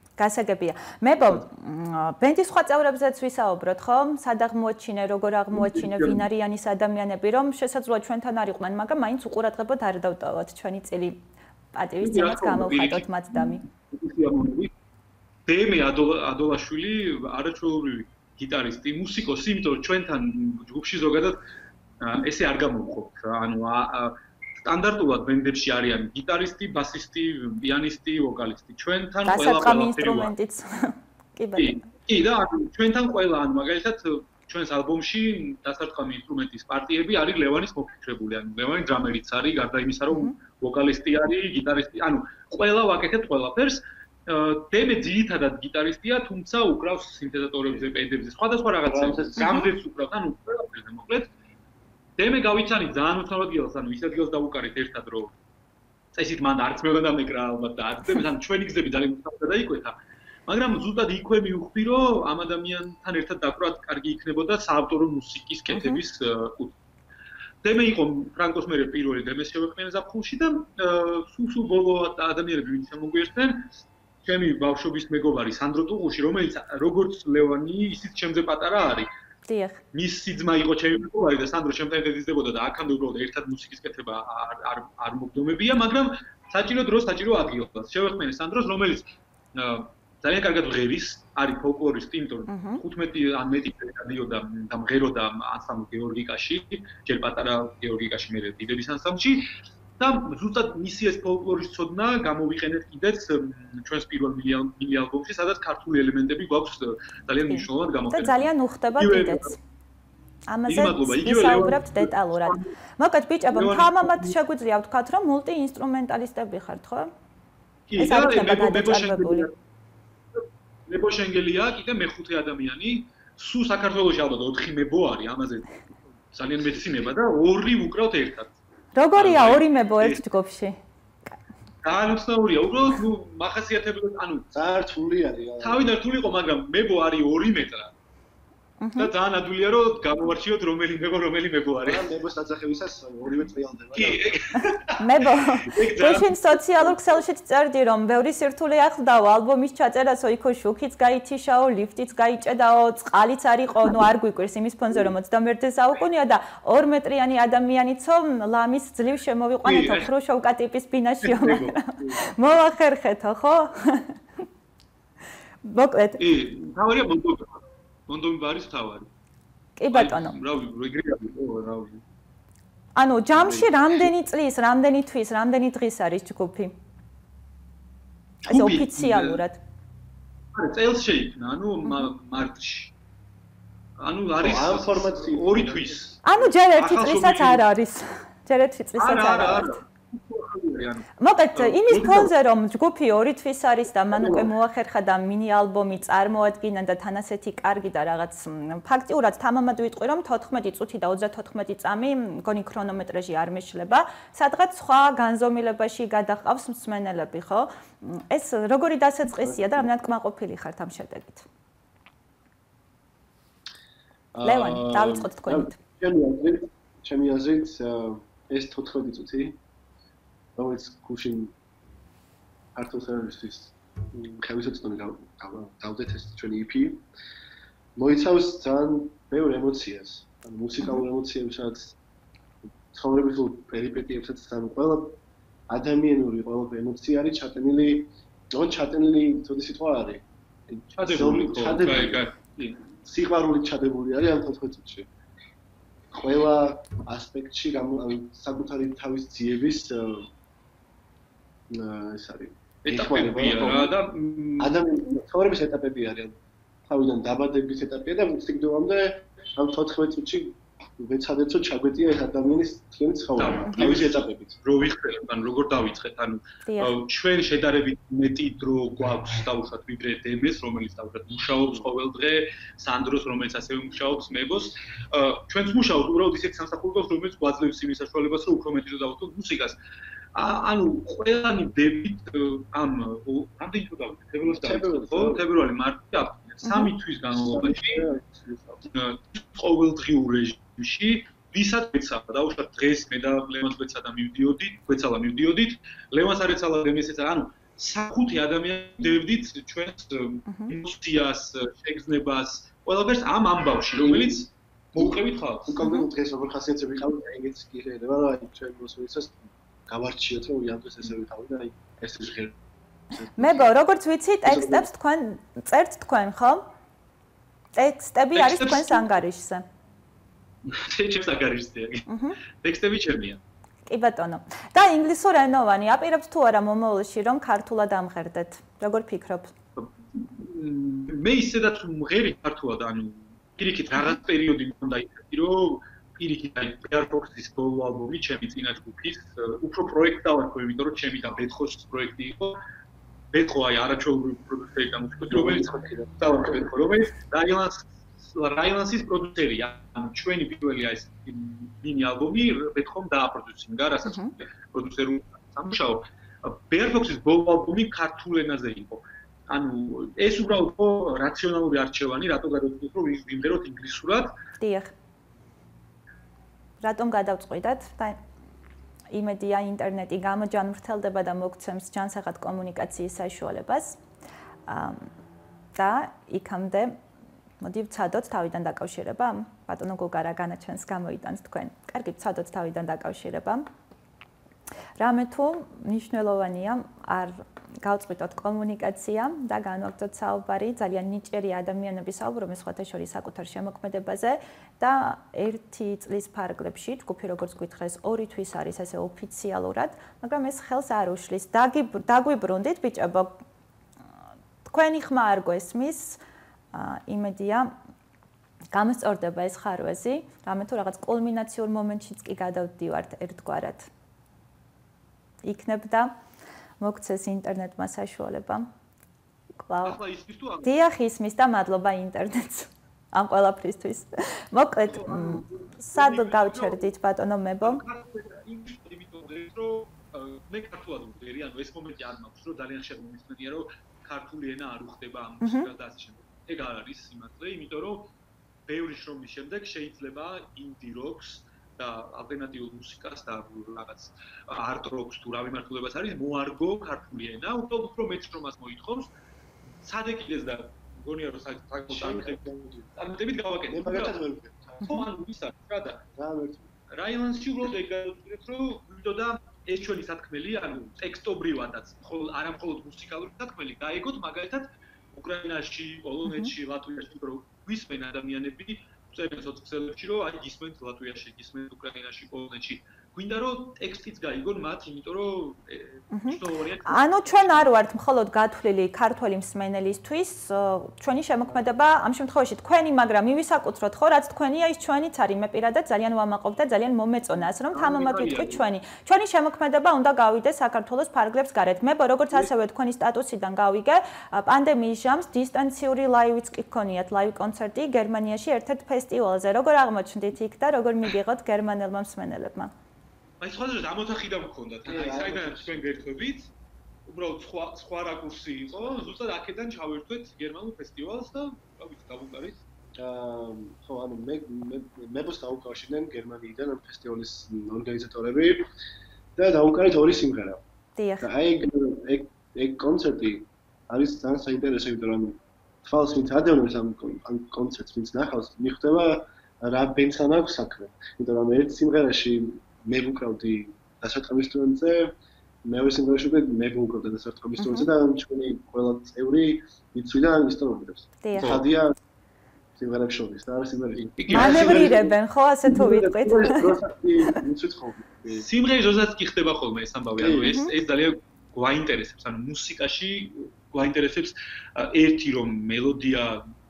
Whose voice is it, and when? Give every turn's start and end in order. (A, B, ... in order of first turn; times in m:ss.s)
0:00.2-0:11.2 A
0:05.6-0:06.2 B
0:11.7-0:13.6 A
0:12.0-0:14.7 B
0:15.5-0:21.4 B
0:22.0-0:30.3 B
0:29.2-0:31.9 A
0:31.6-0:51.3 B
0:40.1-0:40.4 A
0:48.8-0:49.7 C
0:52.2-0:55.3 B
0:56.1-1:06.7 B
1:05.7-1:06.0 A
1:07.6-1:13.7 B
1:14.2-1:19.1 B
1:19.5-1:19.8 A
1:19.9-1:49.6 B
1:32.5-1:32.8 A
1:47.5-1:49.6 A
1:50.5-1:57.1 A
1:50.7-1:52.7 B
1:53.5-1:54.4 B
1:57.9-1:59.5 B
1:58.0-1:59.5 A
2:00.4-2:05.8 B
2:06.3-2:08.6 B
2:09.0-2:10.8 A
2:09.2-2:10.2 B
2:11.8-2:14.5 B
2:14.5-2:15.9 C
2:15.6-2:17.9 B
2:18.8-2:19.1 A
2:19.0-2:22.1 B
2:21.8-2:24.6 C
2:23.9-2:26.4 B
2:25.0-2:44.2 A
2:39.6-2:40.1 B
2:41.2-2:41.8 B
2:45.6-2:46.2 A
2:46.2-2:47.5 B
2:48.1-2:49.1 B
2:49.8-2:50.4 A
2:49.9-2:52.0 B
2:53.0-2:56.8 A
2:53.4-2:54.1 C
2:58.4-2:59.4 B
2:58.5-2:59.6 A
3:00.5-3:02.9 B
3:04.0-3:06.2 B
3:04.4-3:06.0 C
3:06.2-3:09.8 A
3:06.8-3:07.6 B
3:09.0-3:12.2 B
3:11.2-3:31.5 A
3:11.9-3:12.3 C
3:14.2-3:14.4 C
3:29.4-3:29.9 C
3:34.3-3:39.6 C
3:34.4-3:35.8 A
3:40.6-3:41.5 C
3:42.8-3:47.0 C
3:48.0-3:52.0 C
3:52.9-4:02.2 C
4:00.9-4:02.8 B
4:03.0-4:05.1 C
4:06.1-4:10.3 C
4:11.7-4:13.9 C
4:12.8-4:14.7 B
4:14.6-4:24.6 C
4:23.4-4:39.8 B
4:26.6-4:27.0 A
4:40.3-4:48.0 B
4:44.5-4:45.5 C
4:46.6-4:46.9 A
4:47.3-4:48.9 C
4:48.9-5:05.7 B
5:00.5-5:00.8 A
5:04.0-5:04.4 C
5:05.0-5:12.6 C
5:05.8-5:06.1 A
5:13.1-5:13.7 C
5:13.4-5:16.6 A
5:14.4-5:14.9 C
5:17.8-5:19.6 A
5:18.4-5:19.1 B
5:20.6-5:23.4 B
5:22.1-5:22.4 A
5:23.9-5:29.5 A
5:29.8-5:42.6 B
5:34.0-5:34.2 A
5:43.3-6:04.3 B
5:45.3-5:46.1 C
5:54.1-5:54.3 A
6:04.6-6:04.9 A
6:06.8-6:08.2 A
6:09.1-6:14.0 A
6:14.7-6:15.1 A
6:15.8-6:17.0 A
6:17.6-6:23.6 A
6:25.0-6:43.4 A
6:44.6-6:46.2 A
6:46.7-6:47.7 A
6:48.7-6:53.9 A
6:55.4-6:56.1 A
6:56.8-6:58.7 A
6:59.6-7:00.0 A
6:59.8-7:00.8 B
7:00.6-7:07.8 A
7:04.9-7:06.9 B
7:07.6-7:18.1 B
7:15.4-7:15.7 A
7:18.7-7:29.1 B
7:29.8-7:34.2 B
7:31.9-7:32.9 C
7:33.7-7:34.9 C
7:34.8-7:36.0 B
7:36.2-7:36.7 C
7:36.9-7:57.6 B
7:46.2-7:46.5 A
7:56.1-8:22.7 A
8:07.7-8:08.6 B
8:23.4-8:26.5 B
8:24.8-8:26.0 C
8:27.1-8:32.6 B
8:33.0-8:38.6 C
8:39.4-8:40.6 C
8:41.0-8:41.3 A
8:41.2-9:01.9 C
8:57.6-8:57.9 A
9:01.2-9:01.6 A
9:01.4-9:01.6 B
9:02.8-9:05.1 C
9:04.0-9:05.0 B
9:04.3-9:06.7 A
9:05.7-9:08.5 C
9:08.3-9:16.4 B
9:10.2-9:10.5 C
9:10.5-9:10.7 A